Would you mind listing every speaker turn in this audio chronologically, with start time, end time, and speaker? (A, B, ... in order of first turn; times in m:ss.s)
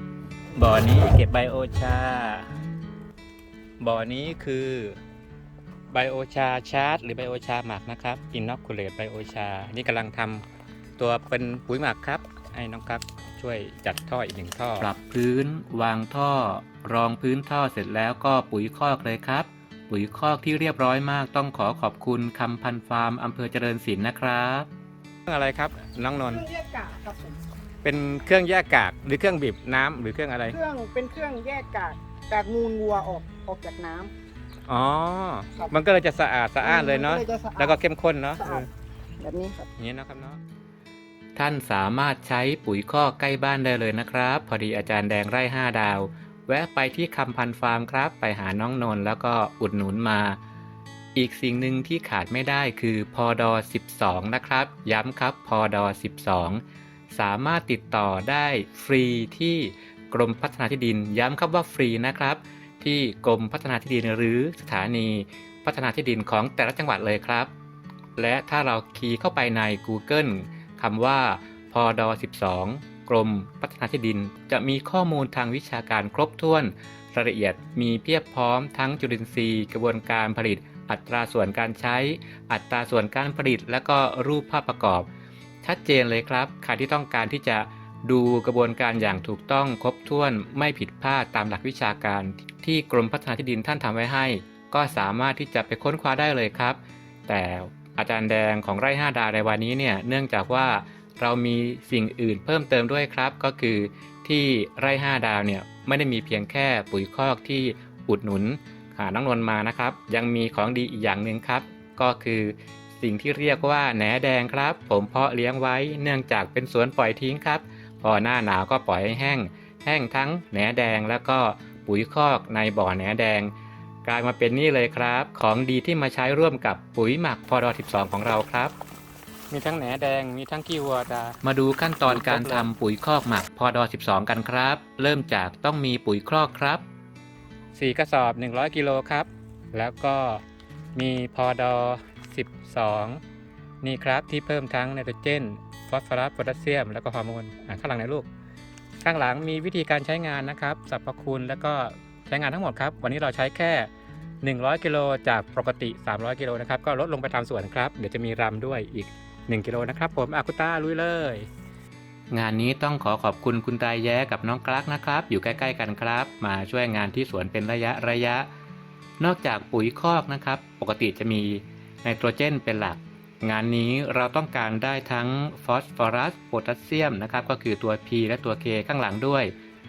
0:00.5-0:02.5 A
0:03.8-0:05.0 A
0:05.9-0:10.4 A
0:11.0-0:14.9 A
0:14.8-0:24.7 B
0:25.3-0:26.5 A
0:26.3-0:27.4 C
0:27.8-0:30.6 A
0:30.5-0:34.1 C
0:34.7-0:38.7 A
0:36.6-0:37.8 C
0:39.2-0:39.7 C
0:39.8-0:40.4 A
0:41.4-0:50.4 B
0:51.2-0:56.6 B
0:57.1-1:07.5 B
1:08.2-1:25.1 B
1:25.6-2:03.5 B
2:04.0-2:08.7 B
2:09.5-2:11.4 A
2:11.4-2:16.8 B
2:12.1-2:12.7 A
2:17.8-2:20.4 A
2:21.0-2:23.2 A
2:23.8-2:28.3 A
2:29.0-2:33.9 A
2:34.4-2:41.5 A
2:42.3-2:48.5 B
2:49.2-2:59.5 B